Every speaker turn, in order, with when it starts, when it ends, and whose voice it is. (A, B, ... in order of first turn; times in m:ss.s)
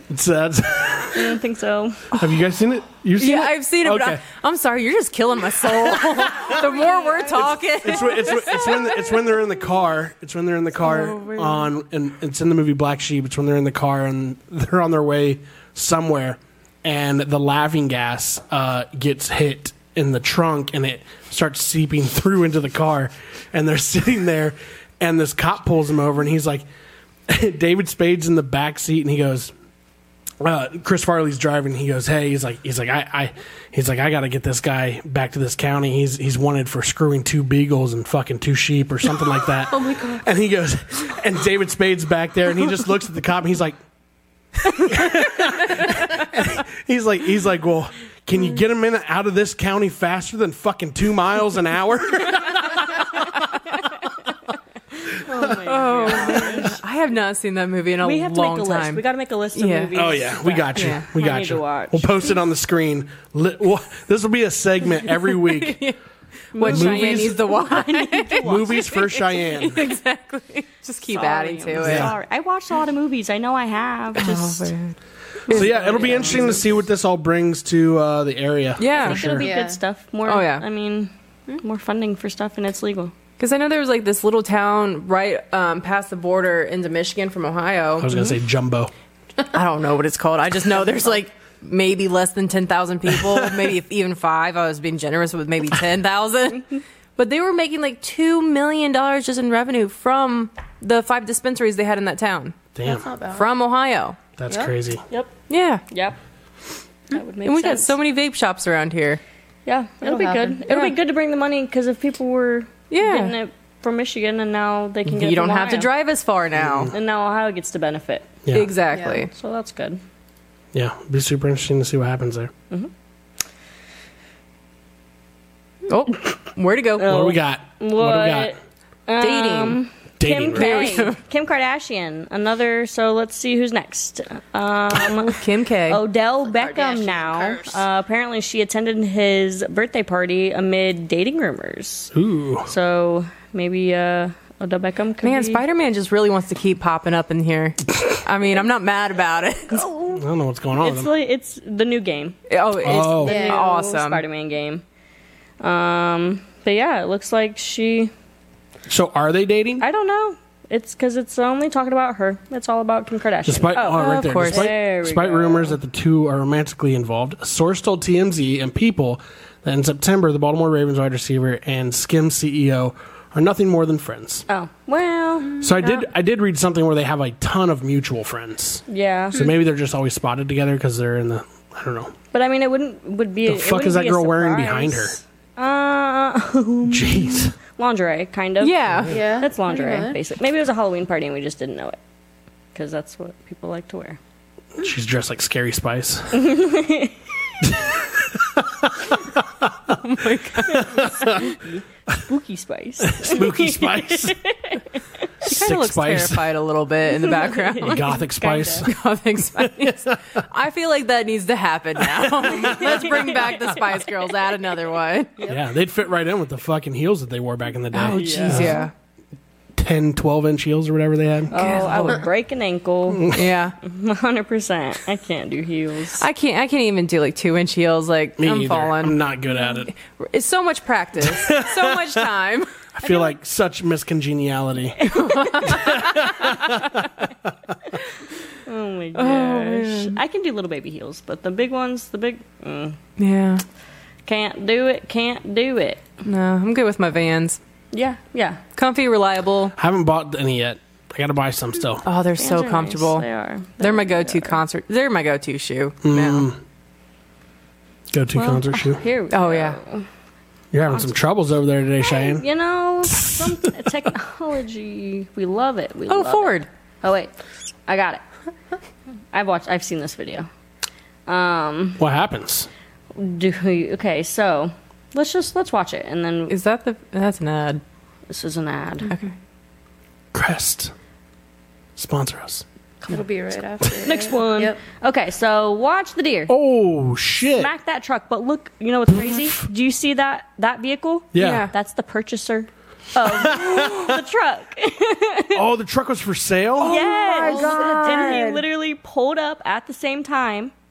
0:00.1-0:01.4 A
0:01.1-0:02.2 B
0:02.1-0:04.2 A
0:03.2-0:09.1 C
0:05.9-0:06.5 A
0:06.4-0:07.5 B
0:07.8-0:26.6 A
0:10.8-0:11.7 C
0:27.3-0:29.5 A
0:30.4-0:43.8 A
0:39.7-0:40.3 D
0:44.6-0:53.2 A
0:55.0-0:56.8 B
0:55.6-0:59.0 C
0:58.0-1:02.4 B
0:59.6-1:00.0 C
0:59.9-1:05.8 A
1:00.8-1:01.0 C
1:05.1-1:06.0 C
1:06.5-1:08.9 B
1:06.5-1:12.1 C
1:06.6-1:07.8 A
1:08.4-1:09.9 A
1:11.1-1:14.7 B
1:11.8-1:12.2 A
1:14.2-1:15.0 C
1:15.5-1:16.6 C
1:15.5-1:16.7 B
1:15.5-1:19.5 A
1:18.8-1:19.2 C
1:18.9-1:23.1 B
1:19.4-1:19.8 D
1:20.2-1:20.6 C
1:23.4-1:28.1 C
1:28.0-1:28.9 A
1:29.5-1:42.6 C
1:33.1-1:33.7 A
1:42.8-1:43.1 A
1:42.8-1:43.5 D
1:43.3-1:44.2 C
1:44.4-1:45.0 A
1:45.5-1:45.8 C
1:45.9-1:46.2 B
1:47.1-1:47.9 B
1:47.4-1:49.2 C
1:49.7-1:55.9 B
1:50.0-1:50.9 D
1:52.9-1:53.3 C
1:55.1-1:56.9 C
1:56.6-1:56.9 A
1:56.9-1:58.3 B
1:58.4-1:58.7 A
1:58.5-1:59.3 C
1:58.9-1:59.3 D
1:59.3-2:00.0 B
2:00.7-2:02.5 A
2:05.9-2:07.3 C
2:07.0-2:22.1 B
2:07.0-2:08.6 A
2:09.2-2:09.8 C
2:10.2-2:11.1 A
2:10.5-2:11.2 C
2:14.9-2:16.0 C
2:16.4-2:17.8 D
2:22.1-2:22.7 A
2:22.7-2:25.6 B
2:25.2-2:29.9 C
2:29.7-2:30.2 B
2:30.1-2:31.1 A
2:30.8-2:32.4 B
2:32.5-2:34.2 C
2:32.8-2:33.4 A
2:33.1-2:34.8 B
2:33.3-2:33.6 D
2:35.6-2:38.1 B
2:38.9-2:39.8 A
2:39.8-2:45.8 B
2:43.4-2:54.5 A
2:44.0-2:44.7 C
2:54.5-2:55.6 B
2:55.6-3:02.1 A
2:55.8-2:56.1 C
2:58.9-2:59.5 B
3:02.3-3:08.8 B
3:03.4-3:05.2 A
3:06.9-3:07.6 A
3:08.6-3:09.2 C
3:08.9-3:09.2 A
3:09.1-3:10.2 D
3:09.4-3:12.0 B
3:12.8-3:14.2 B
3:14.8-3:16.6 A
3:16.3-3:17.2 B
3:17.6-3:20.0 A
3:19.9-3:21.0 C
3:20.6-3:25.0 B
3:20.7-3:21.5 A
3:23.0-3:24.4 A
3:25.4-3:26.6 A
3:25.4-3:28.1 C
3:27.4-3:28.9 B
3:27.8-3:28.9 A
3:28.8-3:35.3 C
3:29.6-3:30.2 A
3:32.0-3:33.1 A
3:32.6-3:34.3 B
3:35.5-3:38.9 A
3:37.9-3:38.9 C
3:38.2-3:38.8 B
3:39.8-3:41.6 A
3:41.5-3:46.2 B
3:41.5-3:42.2 C
3:43.1-3:43.4 A
3:43.3-3:43.8 C
3:46.2-3:49.2 C
3:48.4-3:49.9 A
3:49.9-3:52.8 C
3:51.2-3:52.3 A
3:53.0-3:55.0 A
3:55.0-3:56.2 B
3:55.0-3:56.8 C
3:55.7-3:57.5 A
3:58.7-4:03.0 B
3:59.2-4:00.2 C
4:03.2-4:03.6 C
4:04.3-4:06.0 B
4:06.2-4:07.6 C
4:07.9-4:08.6 B
4:08.8-4:09.8 C
4:09.8-4:12.0 A
4:12.0-4:13.3 C
4:12.4-4:14.6 B
4:13.8-4:16.5 C
4:16.0-4:16.6 A
4:18.1-4:19.0 A
4:18.4-4:20.1 B
4:19.3-4:19.8 C
4:20.7-4:22.5 A
4:20.9-4:21.2 B
4:22.0-4:27.3 B
4:23.0-4:23.8 A
4:26.1-4:26.7 C
4:27.9-4:28.2 B
4:29.3-4:30.5 B
4:31.3-4:32.0 B
4:32.0-4:32.7 A
4:33.2-4:36.5 B
4:36.5-4:37.8 C
4:38.3-4:39.1 B
4:39.0-4:39.3 C
4:40.3-4:40.9 A
4:42.0-4:42.6 A
4:43.1-4:44.8 D
4:43.8-4:44.1 A
4:44.0-4:46.5 B
4:46.5-4:47.7 A
4:47.5-4:55.6 B
4:49.1-4:49.6 A
4:51.3-4:51.7 A
4:51.4-4:51.7 C
4:53.2-4:54.2 A
4:55.5-4:57.1 A
4:56.8-4:58.6 C
4:56.8-5:00.7 B
4:57.4-4:57.9 D